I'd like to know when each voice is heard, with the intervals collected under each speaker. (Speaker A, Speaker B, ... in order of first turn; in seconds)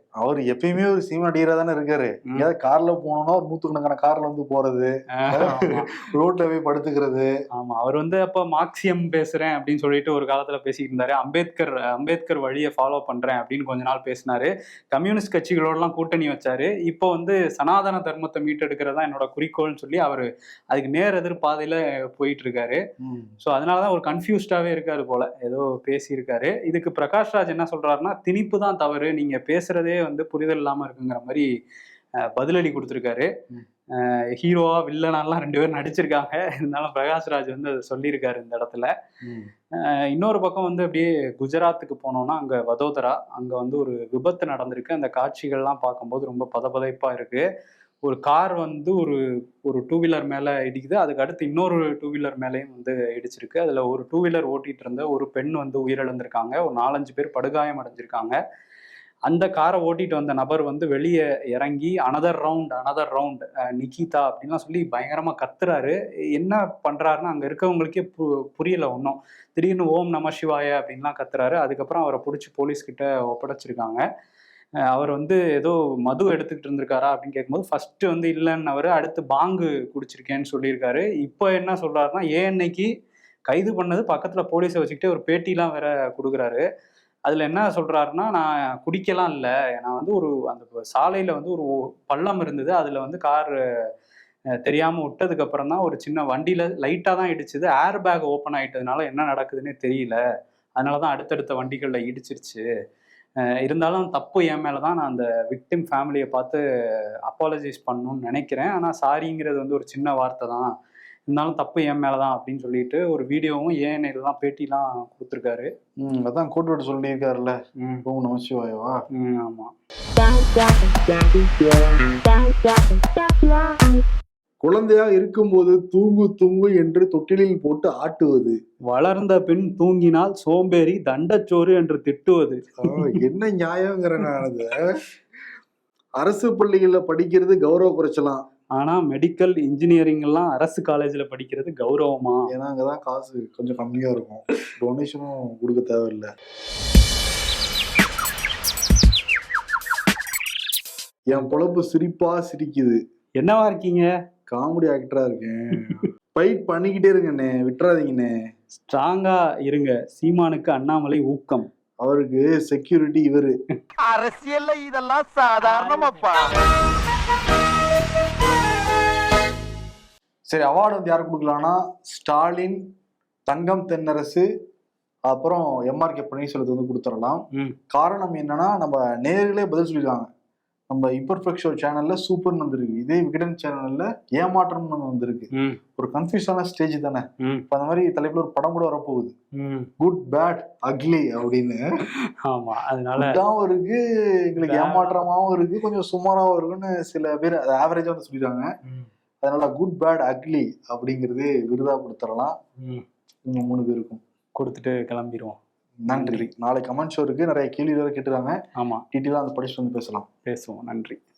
Speaker A: 0.2-7.3, 23.0-23.3, 39.2-39.5, 116.0-119.0, 124.6-128.6, 132.8-135.0, 136.2-138.4, 142.5-146.3, 151.3-153.0, 154.5-158.3, 162.0-163.6, 170.5-172.8, 173.5-174.5, 175.3-180.3, 180.9-189.3, 190.0-191.8, 193.2-198.7, 199.4-202.6, 203.5-204.2, 206.1-208.6, 209.1-210.3
Speaker B: 5.2-6.0, 7.6-22.8, 23.4-31.5, 32.2-33.3, 33.9-38.9, 39.8-47.5, 48.0-58.4, 59.3-74.0, 74.9-82.9, 83.5-86.6, 87.3-93.5, 94.6-100.2, 100.8-102.6, 103.6-106.6, 107.3-110.7, 111.3-115.7, 119.2-119.7, 128.9-133.2, 138.8-142.5, 153.4-154.1, 158.8-161.7, 189.6-189.9, 192.4-193.4, 194.6-195.3, 202.8-203.1, 204.6-205.6, 206.1-206.4, 208.8-209.0, 210.5-211.2
Speaker C: 164.0-166.5